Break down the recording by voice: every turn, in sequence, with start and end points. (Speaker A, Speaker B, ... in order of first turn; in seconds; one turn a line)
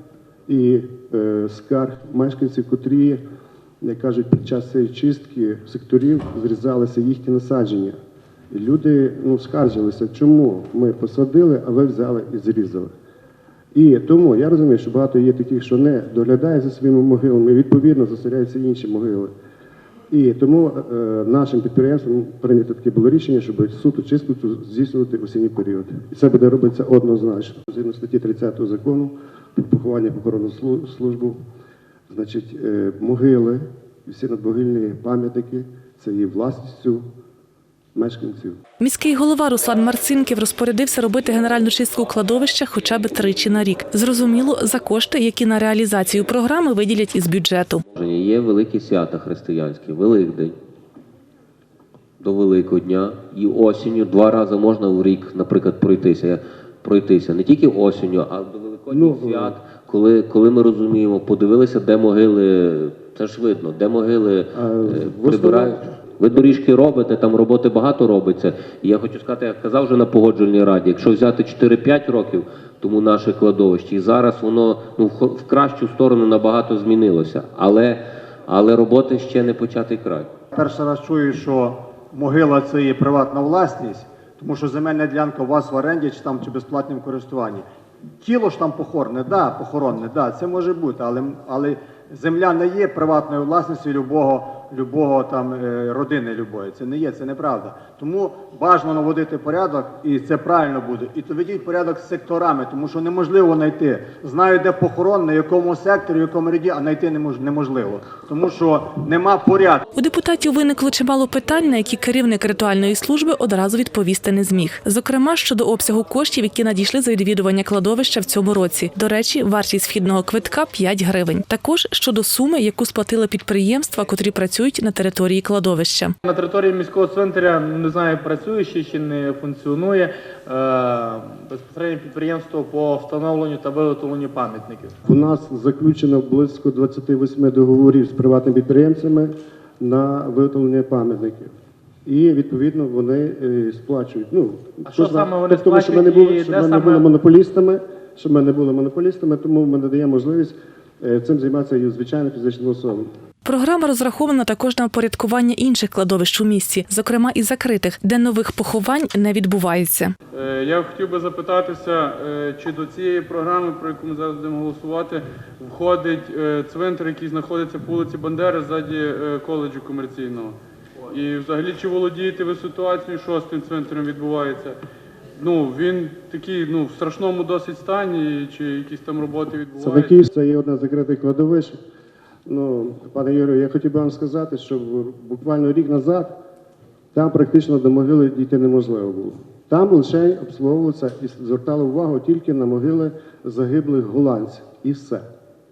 Speaker A: 0.5-3.2
Speaker A: 3.8-8.0
Speaker A: 8.5-12.9
Speaker A: 13.7-19.3
Speaker A: 20.1-31.4
Speaker A: 32.1-37.0
Speaker A: 37.9-38.6
Speaker B: 38.8-47.8
Speaker C: 47.9-50.5
Speaker C: 52.2-80.3
Speaker A: 58.9-59.6
Speaker A: 64.5-65.9
Speaker D: 80.5-87.7
Speaker D: 88.2-109.8
Speaker B: 109.9-126.1
Speaker E: 126.2-134.9
Speaker A: 135.0-141.5
Speaker A: 142.0-153.1
Speaker E: 144.9-147.0
Speaker B: 153.4-160.1
Speaker F: 160.3-174.8
Speaker F: 175.4-180.2
Speaker A: 179.8-181.8
Speaker A: 182.4-186.3
Speaker A: 187.1-195.2